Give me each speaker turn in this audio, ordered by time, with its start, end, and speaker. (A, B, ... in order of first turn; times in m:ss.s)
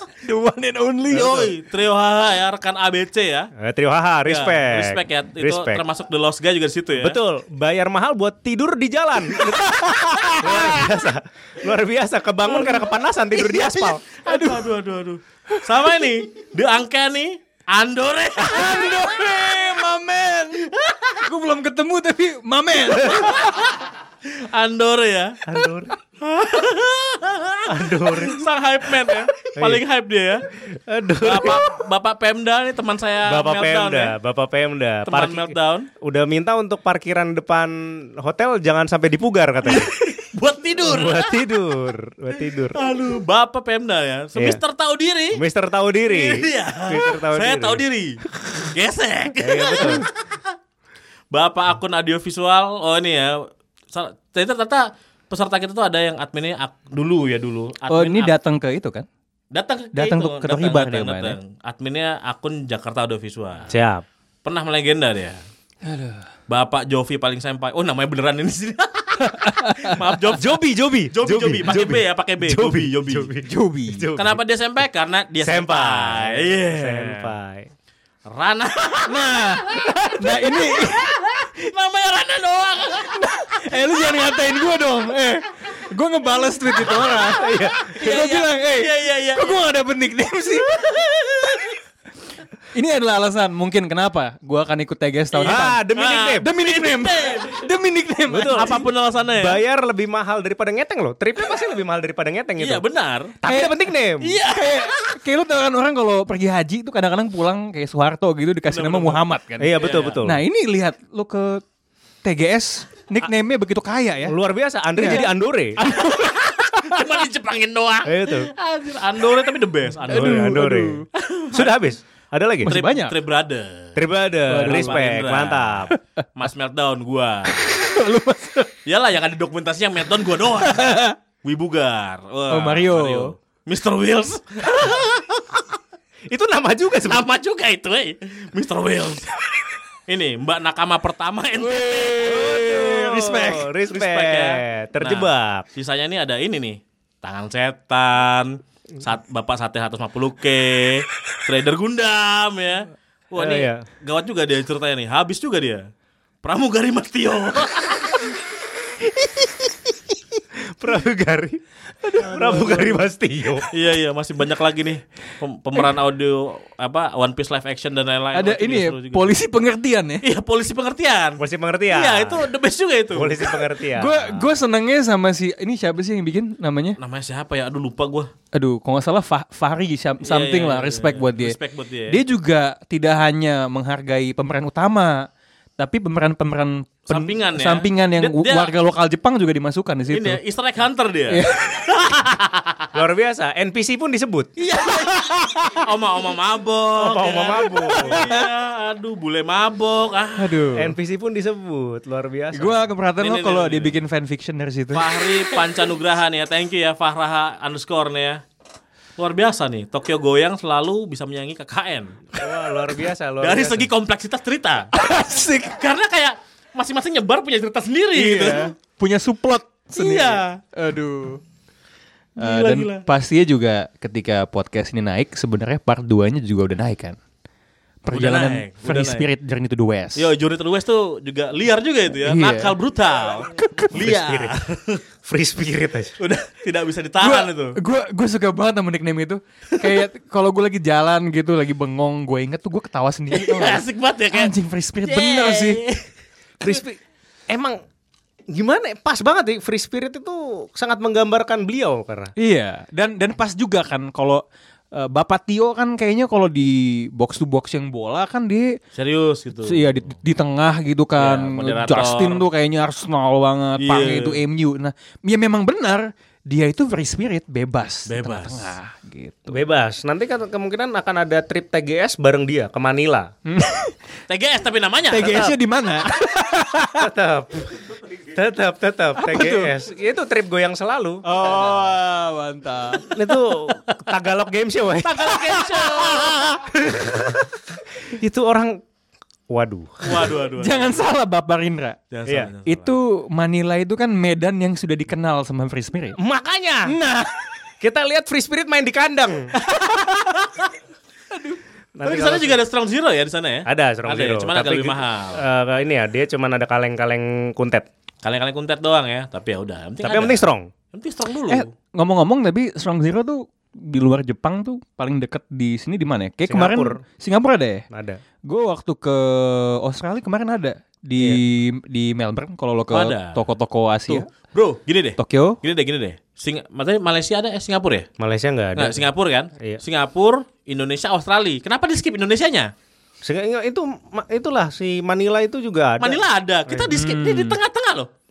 0:00.2-0:01.5 A
0:01.1-0:03.5 B
0:03.6-0:05.8 C
0:04.2-0:07.2 B
0:07.0-0:14.0 C
0:09.3-0:10.9 A
0:13.8-0:19.0 B
0:14.2-0:14.7 A
0:18.4-0:23.6 A
0:20.8-0:21.0 B
0:23.1-0:23.6 B
0:24.3-0:25.4 B
0:25.4-0:25.9 C
0:26.2-0:30.4 B
0:27.7-0:28.4 C
0:29.5-0:29.8 C
0:30.6-0:31.6 C
0:31.2-0:34.1 B
0:33.2-0:39.9 C
0:35.0-0:35.9 B
0:39.6-0:41.4 B
0:40.8-0:42.8 C
0:42.7-0:45.4 B
0:45.3-0:47.8 C
0:46.1-0:50.4 B
0:49.4-0:50.0 C
0:51.3-0:58.3 B
0:57.9-0:59.0 A
0:59.5-1:03.7 B
0:59.9-1:01.4 A
1:03.7-1:04.0 C
1:04.4-1:05.4 B
1:05.8-1:06.3 A
1:06.5-1:10.5 B
1:09.2-1:10.0 A
1:10.3-1:14.4 C
1:11.1-1:13.3 B
1:13.4-1:14.1 A
1:14.1-1:17.3 B
1:15.4-1:17.7 C
1:18.3-1:23.3 B
1:19.0-1:21.2 A
1:23.2-1:30.9 A
1:27.3-1:28.0 C
1:27.9-1:29.6 B
1:30.7-1:31.7 B
1:32.7-1:35.8 A
1:35.3-1:37.6 B
1:35.4-1:36.5 C
1:36.4-1:38.8 A
1:38.3-1:42.8 C
1:38.5-1:39.6 B
1:42.6-1:43.4 B
1:43.4-1:44.4 C
1:43.4-1:43.8 A
1:44.2-1:45.0 B
1:44.5-1:51.6 A
1:48.7-1:50.2 B
1:49.6-1:50.4 C
1:52.2-1:54.4 A
1:54.2-1:55.8 C
1:55.0-1:55.3 A
1:55.8-1:57.1 A
1:55.8-2:00.6 B
1:58.0-1:58.5 C
2:00.0-2:02.7 C
2:00.1-2:01.0 A
2:01.2-2:01.7 B
2:02.6-2:03.2 A
2:02.6-2:04.0 B
2:04.0-2:05.9 C
2:04.5-2:05.0 A
2:04.5-2:07.7 B
2:07.9-2:08.7 A
2:08.8-2:15.6 B
2:10.6-2:11.2 A
2:12.5-2:13.3 A
2:16.3-2:17.2 C
2:17.0-2:19.4 B
2:20.1-2:22.4 B
2:21.6-2:23.7 A
2:22.2-2:25.6 C
2:23.9-2:35.8 B
2:33.4-2:33.8 C
2:36.4-2:38.4 B
2:39.2-2:39.5 A
2:40.6-2:41.6 C
2:42.0-2:43.0 A
2:42.2-2:43.6 C
2:43.7-2:49.4 B
2:48.3-2:50.2 A
2:50.2-2:53.7 B
2:51.4-2:52.5 C
2:53.1-2:54.4 C
2:53.9-2:57.0 A
2:57.0-2:58.3 B
2:58.5-3:01.6 A
3:00.2-3:02.2 B
3:02.1-3:05.3 A
3:05.8-3:10.4 A
3:07.1-3:08.7 B
3:10.1-3:12.9 B
3:11.3-3:11.8 A
3:12.9-3:14.5 C
3:14.6-3:20.6 B
3:15.0-3:15.8 A
3:17.0-3:18.3 C
3:18.1-3:18.4 A
3:20.4-3:20.9 A
3:20.7-3:22.9 C
3:22.5-3:25.1 A
3:23.2-3:24.0 B
3:24.9-3:28.4 B
3:29.2-3:32.2 B
3:32.4-3:33.9 C
3:33.4-3:34.9 B
3:34.9-3:35.8 A
3:35.6-3:38.7 B
3:38.1-3:41.4 A
3:39.9-3:40.6 B
3:42.4-3:43.0 B
3:42.4-3:47.2 A
3:48.0-3:50.3 A
3:48.1-3:49.2 B
3:50.2-3:55.0 B
3:52.2-3:52.8 A
3:53.5-3:54.0 A
3:53.9-3:54.6 C
3:55.2-3:56.1 C
3:56.2-3:57.8 B
3:57.2-4:05.8 A
4:03.3-4:06.0 B
4:06.6-4:07.8 C
4:08.5-4:12.3 C
4:12.4-4:18.8 A
4:18.9-4:20.1 B
4:19.6-4:29.6 A
4:21.2-4:22.5 B
4:23.8-4:24.4 B
4:28.1-4:28.7 B
4:29.5-4:33.3 C
4:33.4-4:33.9 A
4:34.3-4:35.5 B
4:35.1-4:37.1 A
4:35.2-4:35.5 C
4:37.0-4:41.2 C
4:39.2-4:39.7 A
4:41.2-4:43.1 A
4:43.1-4:47.4 C
4:45.0-4:46.4 B
4:48.0-4:48.8 C
4:49.5-4:50.3 C
4:50.0-4:51.0 B
4:50.5-4:52.0 A
4:52.1-4:52.9 B
4:52.6-4:56.2 A
4:56.2-4:56.9 C
4:56.8-4:57.3 A
4:57.8-4:59.5 C
4:59.6-5:00.7 B
5:02.0-5:02.6 C
5:02.0-5:05.4 B
5:03.6-5:07.9 C
5:08.2-5:11.7 B
5:10.0-5:10.7 C
5:11.5-5:17.8 A
5:16.5-5:17.0 C
5:17.9-5:18.2 C
5:18.4-5:24.2 A
5:22.9-5:23.4 B
5:24.1-5:28.1 B
5:25.2-5:25.6 A
5:28.2-5:29.0 C
5:28.8-5:32.7 B
5:33.2-5:36.9 C
5:36.0-5:38.1 B
5:36.9-5:37.6 A